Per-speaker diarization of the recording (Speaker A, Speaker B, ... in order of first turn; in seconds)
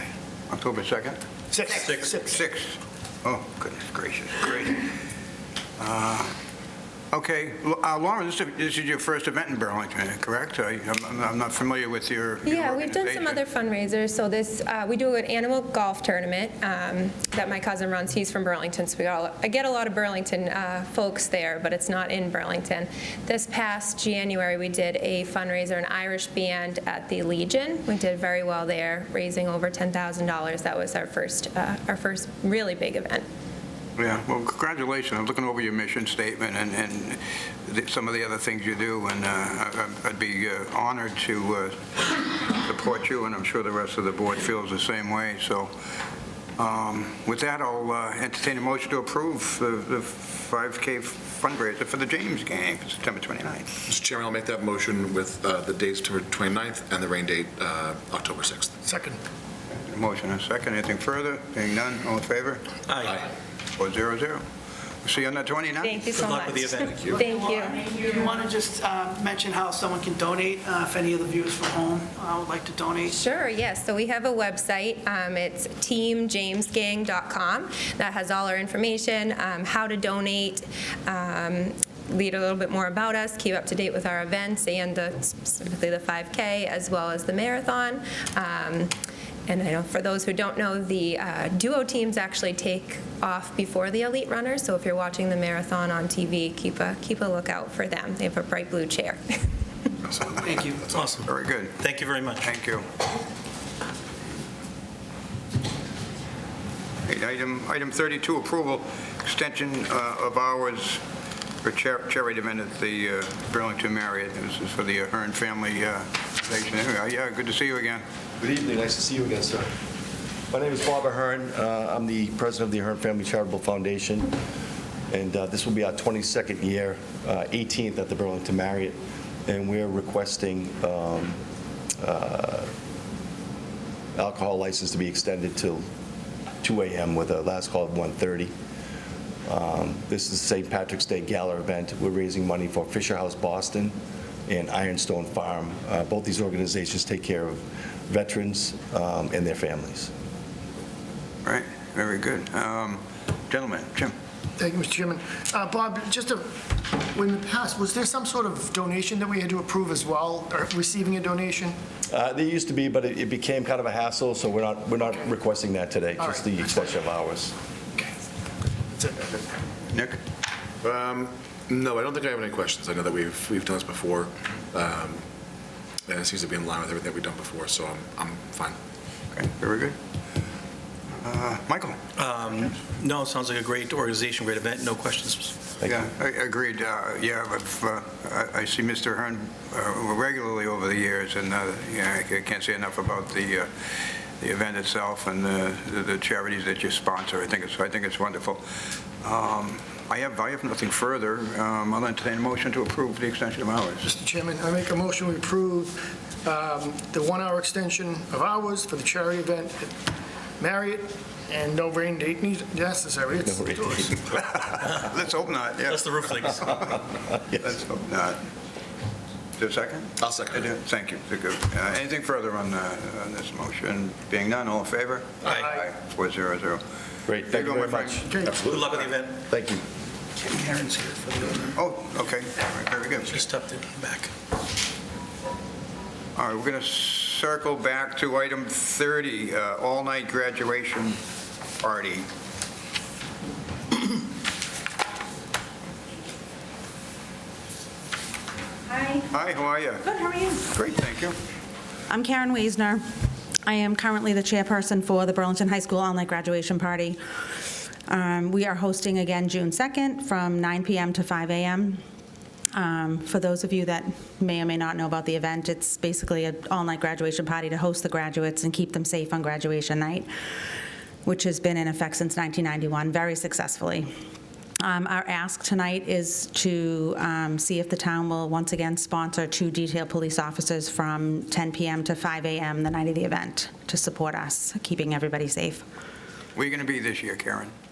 Speaker A: 0.5-1.2, 2.2-2.7, 3.2-4.9, 5.8-6.3, 7.1-13.4, 34.0-41.8, 42.6-45.7, 46.6-53.6, 59.7-62.7, 63.8-64.4, 65.0-66.0, 101.2-101.8, 102.4-102.8, 107.0-111.0, 111.6-118.0, 151.4-154.1, 169.9-170.2, 179.3-179.9, 181.2-182.0, 185.8-193.7, 194.4-198.6, 199.2-204.1, 214.3-216.7, 217.6-218.4, 219.6-226.8, 227.5-228.2, 231.8-233.3, 236.3-241.2, 241.8-242.2, 249.3-250.1, 250.7-251.3, 286.6-287.7
Speaker B: 1.5-2.5, 58.8-59.2, 154.6-156.5, 157.1-161.8, 166.2-166.9, 168.9-169.4, 204.0-209.9, 210.6-214.2, 225.4-225.8, 228.2-228.5
Speaker C: 1.8-2.2, 62.9-63.2, 66.1-66.9, 100.9-102.5, 182.2-185.8, 215.9-216.9, 228.6-229.4, 230.4-231.7, 233.3-234.3
Speaker D: 12.4-33.2, 65.8-68.4, 73.1-88.9, 89.5-99.4
Speaker E: 53.9-58.8, 63.0-63.3, 100.0-101.2, 170.8-175.2, 176.1-178.8, 220.2-220.7
Speaker F: 66.9-73.2, 100.4-100.8
Speaker G: 118.4-119.7, 120.5-124.3, 125.1-131.4, 132.0-132.7, 134.2-135.8, 136.6-138.5, 139.5-143.9, 144.5-150.1, 162.1-167.5, 213.5-214.1, 227.3-229.8
Speaker H: 248.9-249.2, 250.0-250.6, 252.1-253.0, 253.6-257.2, 258.1-262.0, 262.7-270.3, 271.2-274.1, 274.8-285.8